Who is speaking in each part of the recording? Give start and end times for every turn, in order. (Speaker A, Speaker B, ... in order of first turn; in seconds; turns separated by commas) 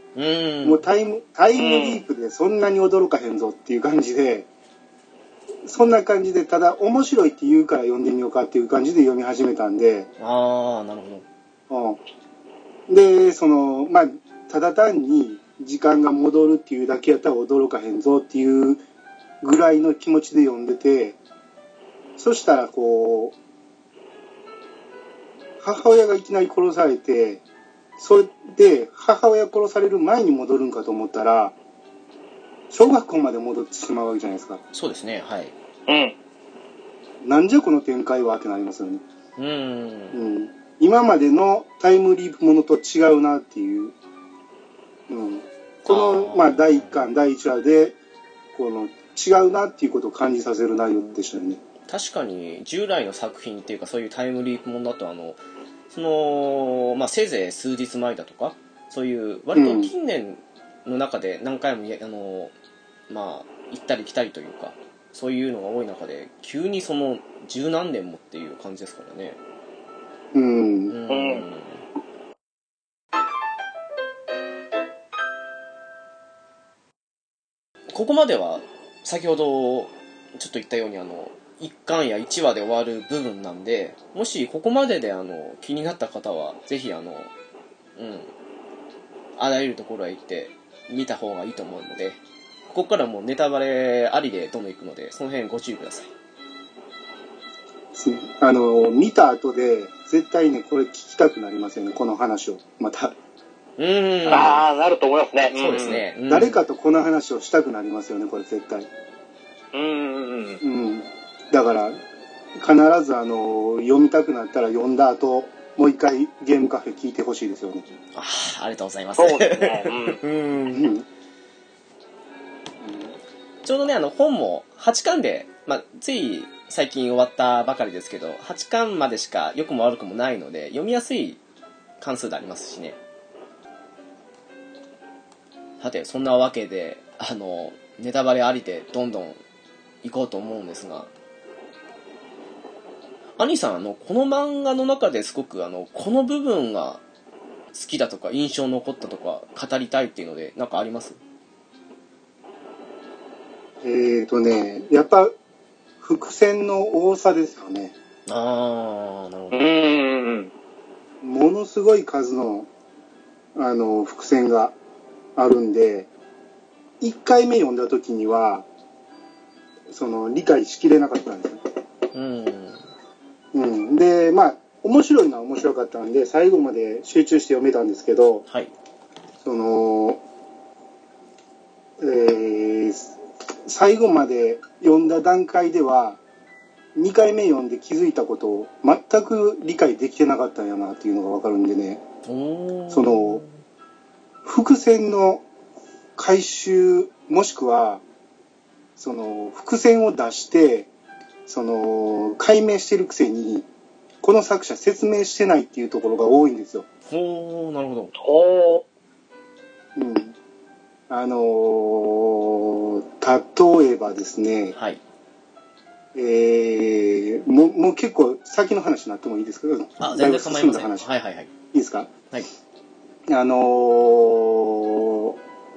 Speaker A: 0.1-0.8, Speaker B: 0.6-4.5, Speaker C: 1.5-2.0, Speaker B: 5.7-10.1, Speaker A: 10.2-11.2, Speaker B: 11.7-12.0, Speaker B: 12.9-18.8, Speaker B: 19.4-21.2, Speaker B: 22.2-23.3, Speaker B: 25.6-27.4, Speaker B: 28.0-31.5, Speaker B: 32.7-34.6, Speaker A: 34.7-35.5, Speaker C: 35.9-36.1, Speaker B: 37.2-39.0, Speaker A: 39.4-40.2, Speaker B: 40.1-43.9, Speaker B: 45.1-48.0, Speaker A: 45.9-47.1, Speaker B: 48.5-51.6, Speaker A: 51.9-55.4, Speaker A: 55.9-62.5, Speaker B: 59.5-59.9, Speaker A: 63.1-69.4, Speaker B: 70.3-71.0, Speaker A: 70.9-71.8, Speaker C: 71.1-71.5, Speaker A: 77.9-87.3, Speaker A: 88.0-88.3, Speaker A: 89.4-92.2, Speaker A: 92.7-96.1, Speaker B: 97.9-103.2, Speaker A: 103.8-104.6, Speaker C: 104.3-106.0, Speaker A: 105.5-106.6, Speaker B: 106.3-108.9, Speaker C: 109.7-110.6, Speaker B: 110.6-112.0, Speaker B: 112.6-117.9, Speaker A: 118.1-120.9, Speaker C: 119.2-120.2, Speaker B: 120.7-121.0, Speaker B: 122.8-123.1, Speaker A: 123.6-131.4, Speaker A: 132.0-133.0, Speaker A: 135.8-139.4, Speaker A: 140.0-141.1, Speaker A: 143.4-147.0, Speaker A: 147.7-151.2, Speaker B: 153.8-155.3, Speaker B: 156.0-157.9, Speaker A: 158.3-159.7, Speaker C: 159.5-160.5, Speaker B: 161.2-162.7, Speaker B: 163.5-164.7, Speaker B: 165.3-166.1, Speaker B: 167.0-168.7, Speaker B: 169.9-171.6, Speaker A: 172.1-172.8, Speaker B: 173.5-178.4, Speaker B: 179.4-180.2, Speaker B: 182.0-186.2, Speaker B: 186.9-192.0, Speaker A: 192.2-193.5, Speaker B: 192.9-193.4, Speaker B: 194.4-195.4, Speaker B: 196.2-198.0, Speaker B: 199.0-200.9, Speaker B: 201.4-203.7, Speaker B: 204.2-206.9, Speaker A: 207.1-208.1, Speaker C: 208.2-208.8, Speaker B: 209.9-210.3, Speaker B: 211.1-214.8, Speaker B: 216.1-221.1, Speaker A: 220.0-221.5, Speaker B: 221.7-222.1, Speaker B: 223.3-225.4